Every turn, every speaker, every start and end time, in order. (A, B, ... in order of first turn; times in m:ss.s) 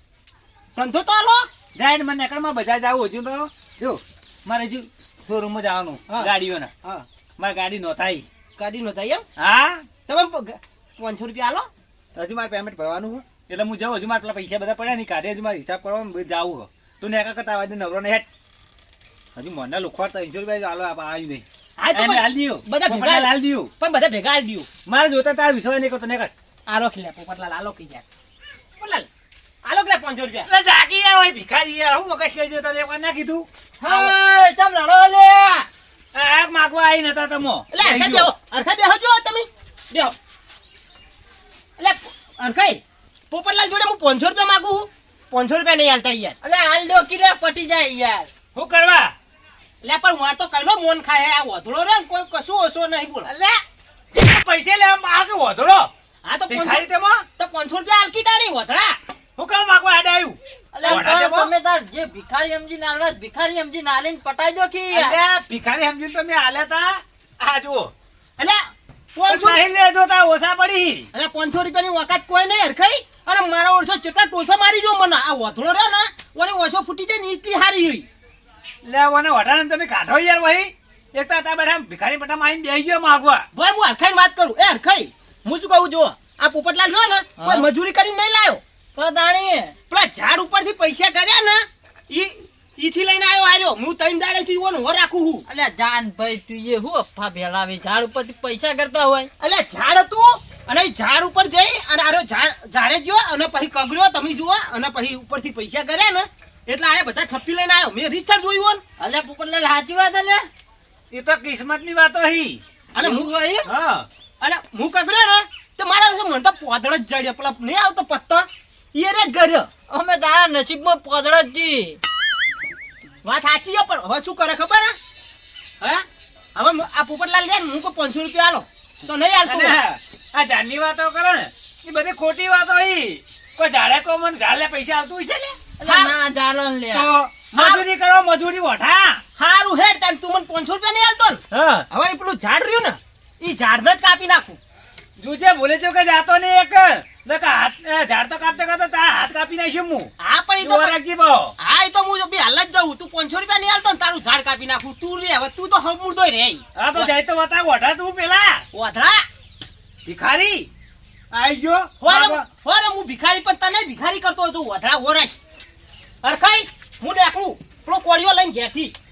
0:00.7-0:01.5 A
0:01.7-0:06.7 B
0:07.4-0:08.2 B
0:08.6-0:09.2 A
0:09.4-0:09.8 B
0:10.1-0:11.7 A
0:12.1-0:18.2 B
0:19.4-0:23.7 B
0:21.8-0:24.7 A
0:24.8-0:26.3 B
0:26.7-0:28.0 A
0:28.8-0:29.1 A
0:29.6-0:30.5 A
0:30.5-0:33.4 B
0:33.8-0:35.7 A
0:33.8-0:34.1 C
0:36.1-0:38.3 B
0:37.7-0:40.2 A
0:41.8-0:42.8 A
0:43.3-0:46.4 A
0:46.4-0:48.3 C
0:48.5-0:49.1 B
0:49.8-0:53.3 A
0:53.2-0:53.6 B
0:54.1-0:55.9 B
0:56.2-0:59.0 A
0:56.5-0:57.2 B
0:59.4-1:01.5 B
1:00.7-1:05.2 C
1:00.8-1:01.1 A
1:04.9-1:07.9 B
1:09.1-1:09.6 A
1:09.2-1:11.1 B
1:11.1-1:18.1 A
1:18.8-1:23.5 B
1:23.5-1:28.6 A
1:27.4-1:27.7 C
1:28.9-1:29.8 C
1:29.9-1:35.4 A
1:35.5-1:39.3 C
1:39.4-1:48.8 A
1:49.0-1:50.5 C
1:51.1-1:52.6 B
1:52.9-1:53.3 A
1:53.0-1:53.7 C
1:53.6-1:54.1 B
1:54.4-1:59.7 A
1:59.9-2:02.0 C
2:03.2-2:05.0 A
2:05.8-2:09.8 A
2:09.4-2:15.6 B
2:15.8-2:17.1 C
2:15.8-2:16.2 A
2:16.9-2:19.2 B
2:17.5-2:17.8 A
2:19.4-2:24.6 A
2:21.5-2:21.9 B
2:25.2-2:31.5 B
2:30.2-2:31.0 A
2:31.6-2:37.1 A
2:36.8-2:38.6 B
2:38.7-2:39.2 A
2:40.0-2:40.7 B
2:41.3-2:42.4 B
2:42.0-2:45.3 A
2:46.2-2:48.9 A